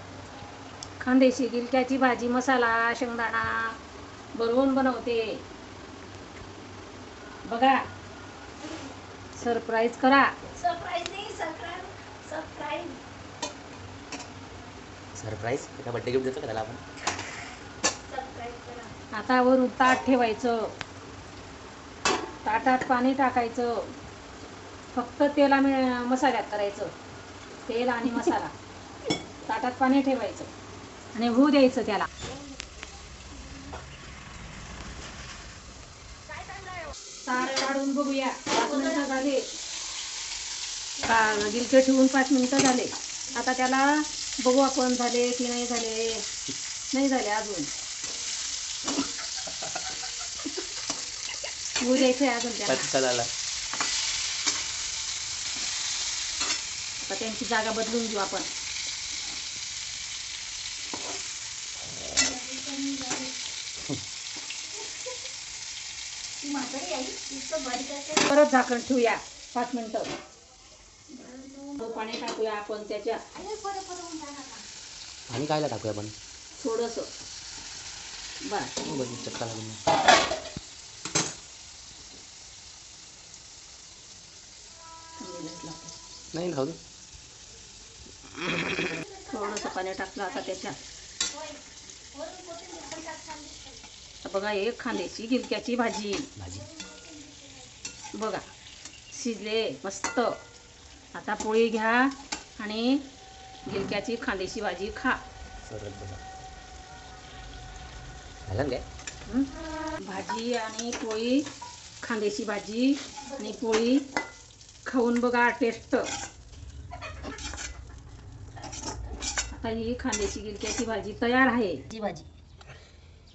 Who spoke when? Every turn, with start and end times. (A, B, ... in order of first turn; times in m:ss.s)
0:01.0-0:03.7 A
0:04.4-0:05.4 A
0:07.4-0:07.8 A
0:09.4-0:10.3 A
0:10.6-0:13.0 B
0:15.2-0:16.8 C
0:18.1-0:18.9 B
0:19.1-0:20.7 A
0:22.4-0:23.9 A
0:24.9-0:26.9 A
0:27.6-0:28.5 A
0:29.5-0:30.5 A
0:31.1-0:32.1 A
0:37.2-0:39.4 A
0:38.6-0:39.1 B
0:41.0-0:46.2 A
0:46.9-0:47.7 A
0:51.8-0:52.9 A
0:52.7-0:53.3 C
0:57.0-0:58.5 A
1:02.1-1:03.3 B
1:06.4-1:08.3 B
1:08.3-1:10.1 A
1:11.1-1:12.0 B
1:11.8-1:13.2 A
1:13.3-1:14.6 B
1:15.3-1:16.1 C
1:16.6-1:17.1 A
1:18.4-1:18.7 A
1:18.8-1:19.8 C
1:25.2-1:26.0 A
1:26.3-1:26.8 C
1:28.4-1:28.8 C
1:28.8-1:29.7 B
1:29.3-1:30.8 A
1:31.3-1:31.6 B
1:32.1-1:33.8 B
1:34.2-1:36.3 A
1:36.4-1:36.7 C
1:36.4-1:37.7 B
1:38.1-1:38.4 A
1:39.1-1:40.4 A
1:41.1-1:43.0 A
1:43.7-1:45.2 A
1:45.6-1:46.2 C
1:48.4-1:48.8 C
1:50.0-1:51.4 A
1:52.0-1:54.0 A
1:54.8-1:56.1 A
1:59.5-2:01.8 A
2:01.9-2:02.2 B